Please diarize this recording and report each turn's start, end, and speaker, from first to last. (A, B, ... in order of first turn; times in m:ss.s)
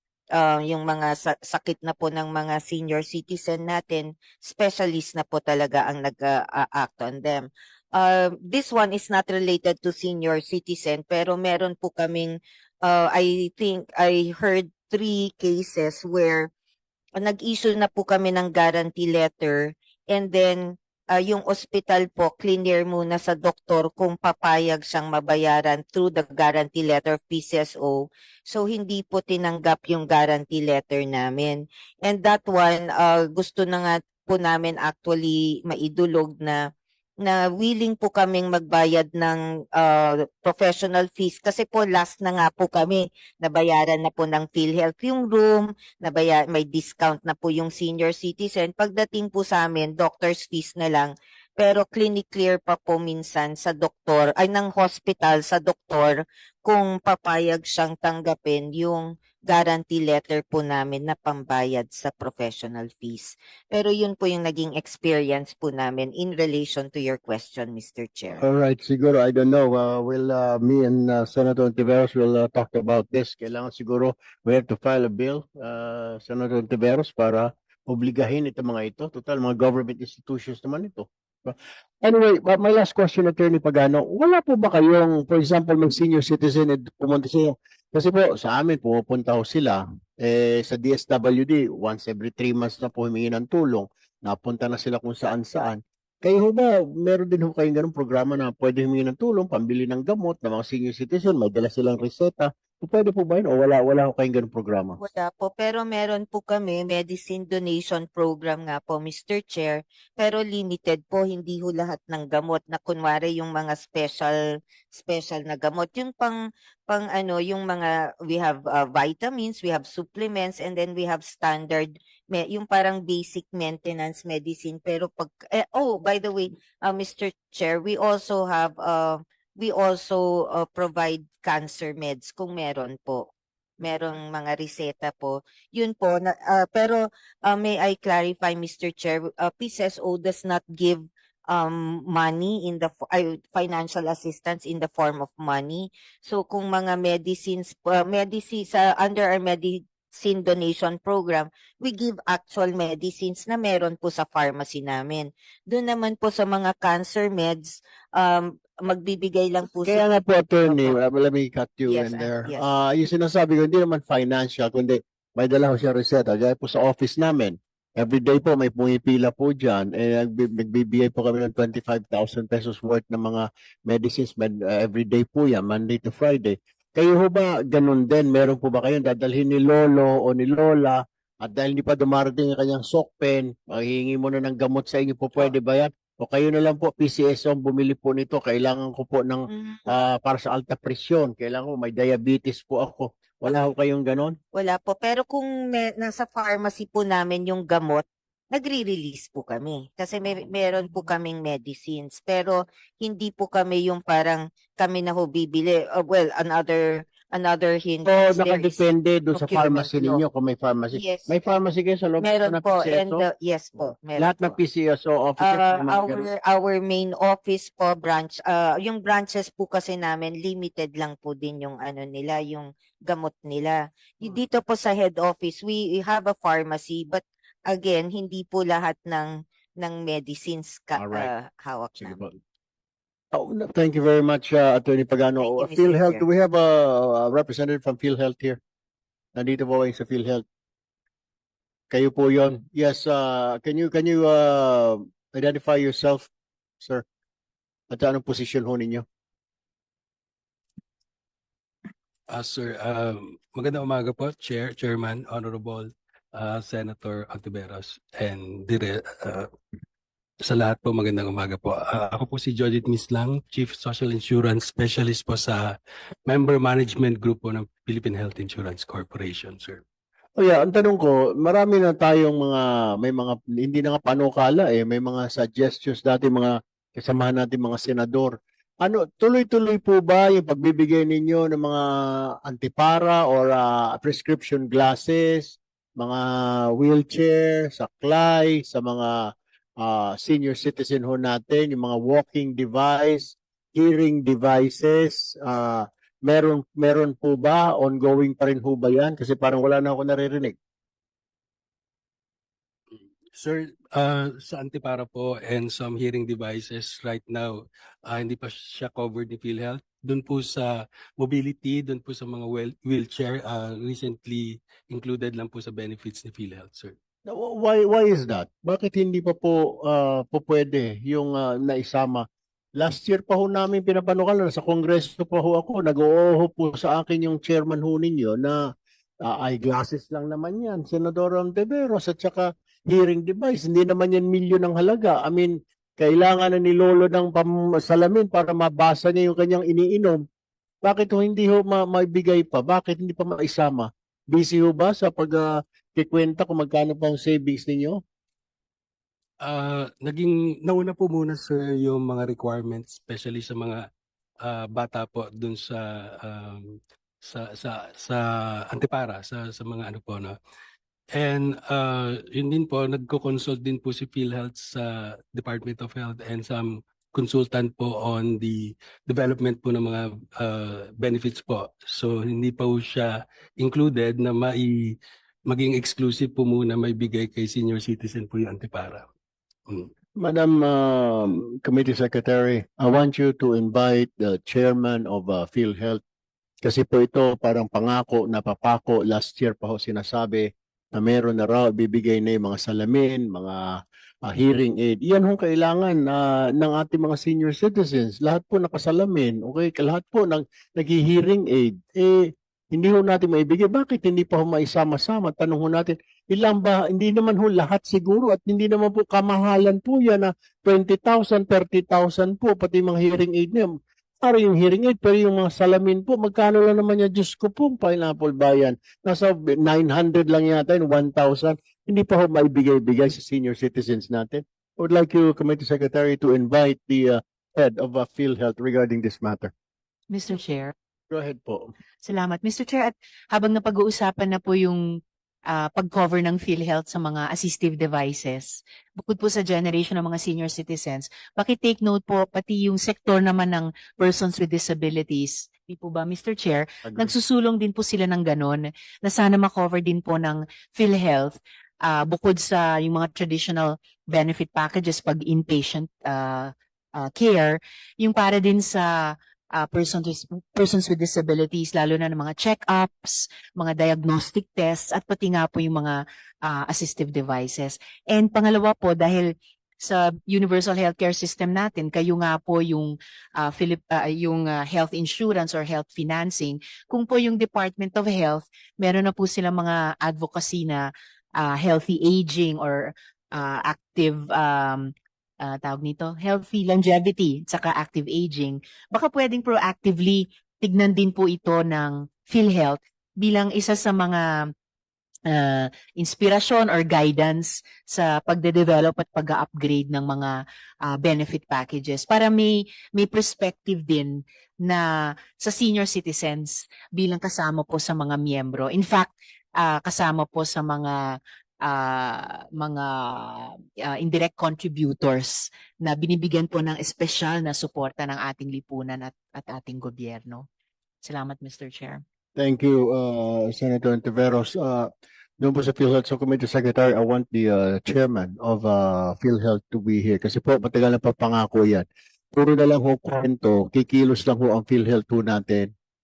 0:00.4-0:16.5 A
0:17.2-0:36.7 A
0:37.2-1:08.4 A
1:08.3-1:45.0 B
1:45.0-1:54.4 A
1:54.9-2:40.0 A
2:39.8-3:14.4 B
2:40.6-2:41.0 A
2:41.9-2:42.7 A
3:09.5-3:10.0 A
3:14.5-3:30.2 A
3:28.1-3:33.3 B
3:30.9-3:31.4 A
3:32.2-3:34.6 A
3:34.2-3:36.3 B
3:35.4-3:52.2 A
3:50.9-3:51.3 B
3:52.0-3:52.3 B
3:53.3-3:58.6 B
3:55.4-3:56.3 A
3:59.4-4:00.4 B
4:01.9-4:06.3 B
4:07.9-4:09.0 B
4:12.3-4:19.5 C
4:20.4-4:29.8 C
4:30.4-4:41.8 B
4:42.4-4:49.2 B
4:49.8-5:00.6 B
5:03.3-5:17.0 C
5:17.3-5:22.3 B
5:22.8-5:28.6 B
5:29.2-5:40.2 B
5:40.8-5:48.0 B
5:49.4-5:53.9 C
5:54.4-6:00.4 C
6:01.1-6:19.1 C
6:20.2-6:26.0 B
6:26.6-7:09.5 B
7:10.1-7:10.7 D
7:11.1-7:11.7 B
7:12.0-7:14.8 D
7:15.5-8:00.9 D
7:26.8-7:27.2 B
8:01.4-8:04.9 D
8:05.4-8:14.2 D
8:15.3-8:20.3 D
8:20.8-8:40.5 D
8:41.0-8:42.0 D
8:42.4-8:55.7 B